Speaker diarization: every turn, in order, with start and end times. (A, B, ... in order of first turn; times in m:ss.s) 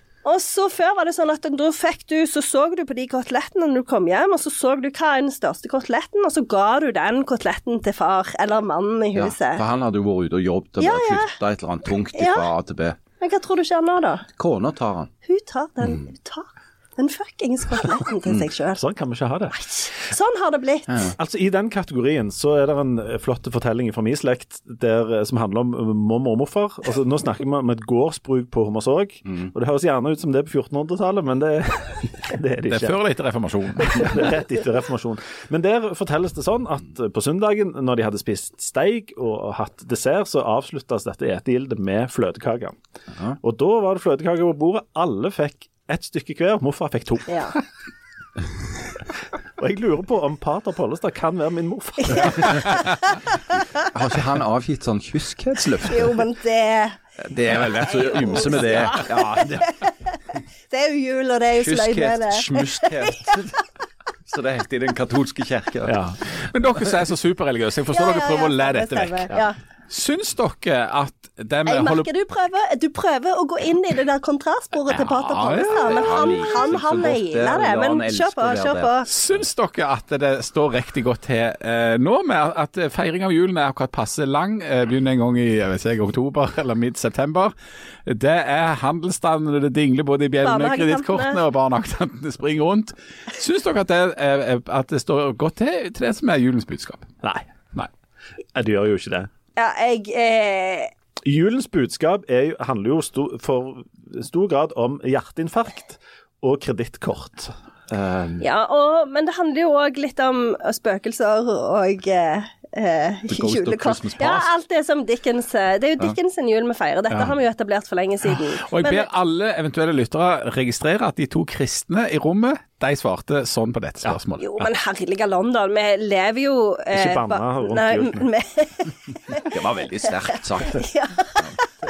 0:00.2-0:09.6 A
0:09.1-0:13.0 B
0:10.8-0:11.3 A
0:12.1-0:12.5 A
0:13.2-0:14.2 A
0:14.4-0:15.1 B
0:15.2-0:18.8 A
0:18.8-0:19.6 C
0:19.6-0:21.1 A
0:21.1-0:33.0 C
0:32.7-0:34.3 D
0:33.8-0:42.8 C
0:43.4-0:47.4 C
0:47.3-0:47.6 A
0:49.6-0:52.6 C
0:52.1-0:53.2 A
0:53.8-0:56.2 B
0:55.8-0:57.0 A
0:57.2-0:59.6 B
0:57.5-1:00.2 A
0:59.1-0:59.6 C
1:00.7-1:03.3 A
1:01.6-1:03.6 B
1:04.3-1:06.0 B
1:05.8-1:06.2 C
1:06.4-1:12.1 D
1:07.9-1:09.6 A
1:11.6-1:19.1 A
1:14.9-1:16.0 D
1:15.7-1:19.0 B
1:19.0-1:27.5 D
1:28.0-1:37.1 D
1:30.4-1:31.4 A
1:38.5-1:39.3 C
1:39.6-1:40.9 A
1:41.2-1:48.5 C
1:48.4-1:59.1 A
1:53.3-1:54.5 B
1:58.3-2:04.6 D
2:04.4-2:09.5 A
2:06.9-2:08.3 C
2:09.3-2:11.5 B
2:10.6-2:11.6 A